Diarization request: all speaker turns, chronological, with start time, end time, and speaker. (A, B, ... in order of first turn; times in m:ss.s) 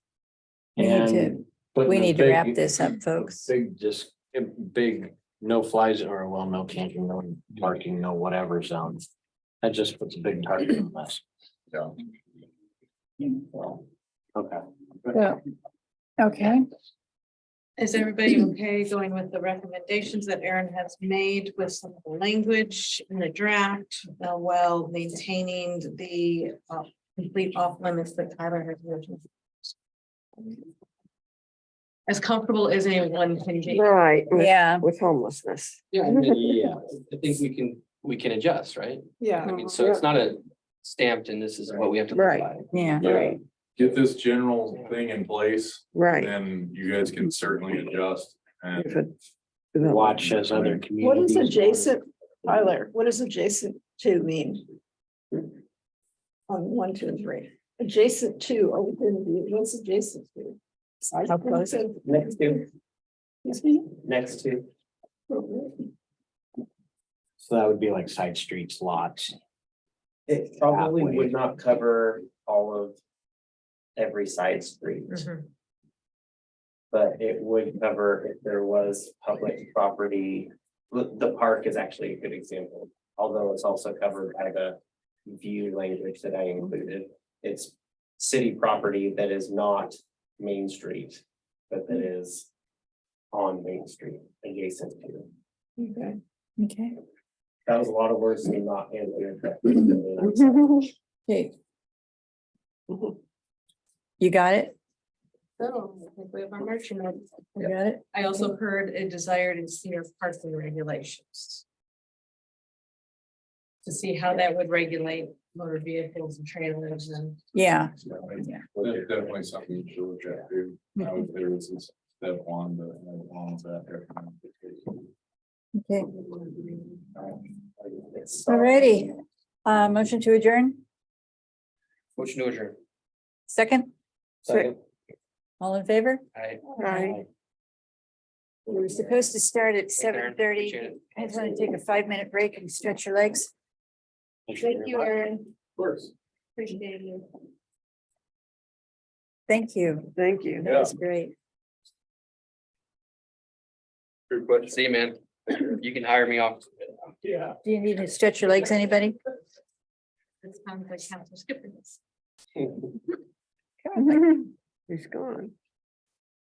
0:00.8-0:09.1 A
0:00.8-0:03.5 B
0:09.6-0:11.2 A
0:15.1-0:15.4 B
0:16.2-0:16.6 B
0:17.8-0:29.2 C
0:32.1-0:33.9 C
0:33.7-0:36.4 D
0:34.3-0:34.9 B
0:34.9-0:35.3 E
0:35.9-0:43.2 F
0:36.5-0:36.8 A
0:42.7-0:43.1 B
0:43.0-0:49.0 G
0:43.0-0:43.4 D
0:45.9-0:46.3 D
0:48.8-0:49.1 D
0:49.7-0:50.0 D
0:49.8-0:52.0 A
0:51.0-0:54.7 E
0:56.5-1:02.6 E
1:02.0-1:02.7 H
1:03.4-1:03.8 E
1:03.9-1:04.7 H
1:05.3-1:05.8 E
1:07.4-1:09.4 A
1:10.3-1:13.0 H
1:10.6-1:11.4 A
1:14.0-1:15.2 H
1:15.1-1:15.5 C
1:16.9-1:32.5 H
1:33.3-1:35.3 H
1:35.8-1:36.2 E
1:36.6-1:37.0 B
1:37.7-1:40.7 H
1:40.2-1:40.9 E
1:41.3-1:41.5 B
1:44.2-1:44.8 B
1:45.6-1:51.6 C
1:47.6-1:48.5 B
1:53.8-1:57.4 C
1:57.6-1:58.6 B
1:58.1-2:05.0 G
2:05.8-2:06.1 B
2:08.4-2:09.1 B
2:09.6-2:10.8 B
2:12.2-2:12.8 F
2:13.5-2:13.9 B
2:14.5-2:14.7 F
2:15.6-2:16.2 B
2:16.3-2:17.2 F
2:18.7-2:23.5 B
2:20.0-2:21.0 F
2:24.6-2:25.4 E
2:26.6-2:27.3 E
2:29.5-2:31.3 B
2:30.2-2:30.6 D
2:30.6-2:30.9 G
2:34.3-2:34.7 G
2:34.6-2:37.0 F
2:37.6-2:39.2 B
2:40.4-2:42.0 C
2:43.8-2:44.4 B
2:44.9-2:45.5 D